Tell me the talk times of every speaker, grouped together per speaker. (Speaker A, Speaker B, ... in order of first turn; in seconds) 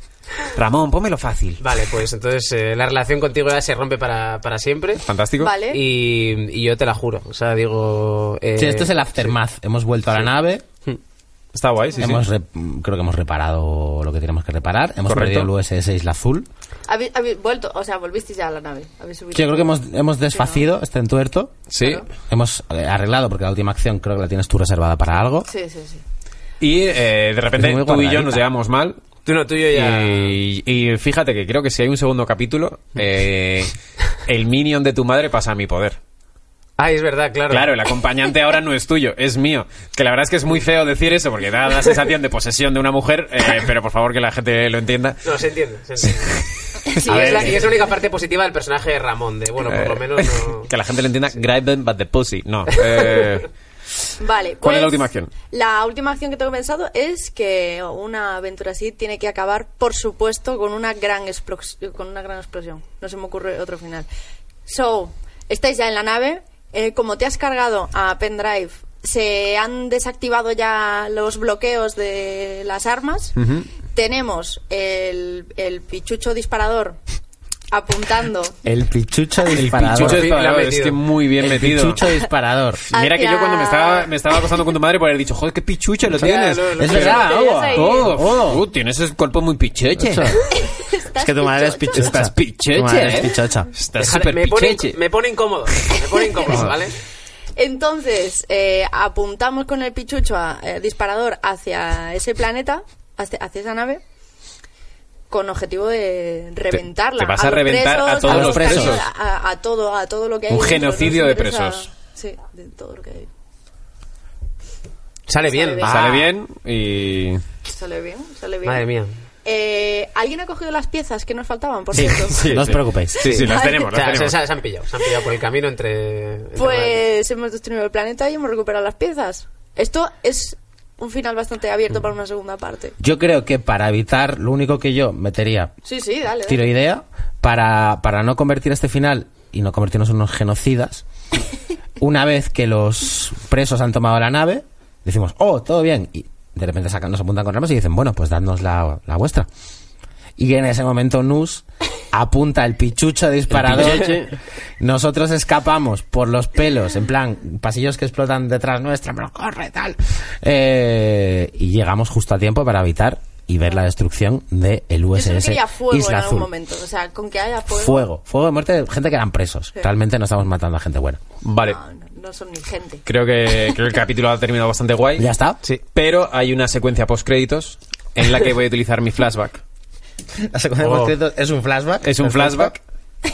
Speaker A: 0.5-1.6, 5.0-5.5, 11.5-12.2, 15.1-15.5, 21.7-22.0, 26.6-29.0, 29.7-33.7, 34.2-36.0, 37.5-45.3, 46.0-46.4, 49.6-53.5, 54.6-55.3, 73.3-73.7, 79.5-82.0, 82.9-90.4, 91.9-95.0, 106.7-109.1, 110.5-111.9, 115.8-117.4, 122.3-124.4, 153.5-154.3, 171.4-171.8, 173.0-175.3, 175.9-179.6, 182.0-182.8
Speaker B: 1.6-5.0, 5.7-9.3, 29.2-30.3, 36.8-37.7, 45.2-46.4, 47.0-50.7, 52.9-53.2, 79.9-81.0, 86.1-87.3, 94.0-96.9, 115.3-116.3, 118.6-119.1, 123.2-127.0, 180.8-181.1
Speaker C: 5.4-5.8, 16.9-19.8, 20.3-20.6, 25.5-26.0, 46.9-47.6, 54.2-64.1, 64.7-73.3, 73.9-77.0, 77.7-78.5, 82.9-84.2, 86.9-88.2, 90.5-92.2, 96.3-96.7, 97.5-104.0, 105.3-113.3, 115.5-116.0, 117.7-118.8, 119.4-122.4, 123.3-123.9, 126.5-132.9, 135.8-136.7, 165.1-168.0, 171.6-173.0
Speaker D: 8.6-10.6, 12.0-16.5, 19.3-21.6, 22.3-25.5, 27.5-28.4, 47.0-47.7, 78.6-80.3, 81.4-82.8, 86.8-88.7, 90.0-90.4, 91.2-93.7, 108.2-109.0, 121.9-123.2, 133.0-135.7, 136.5-141.0, 142.0-149.5, 150.4-154.3, 154.8-166.5, 167.7-171.2, 175.2-175.6, 180.4-182.8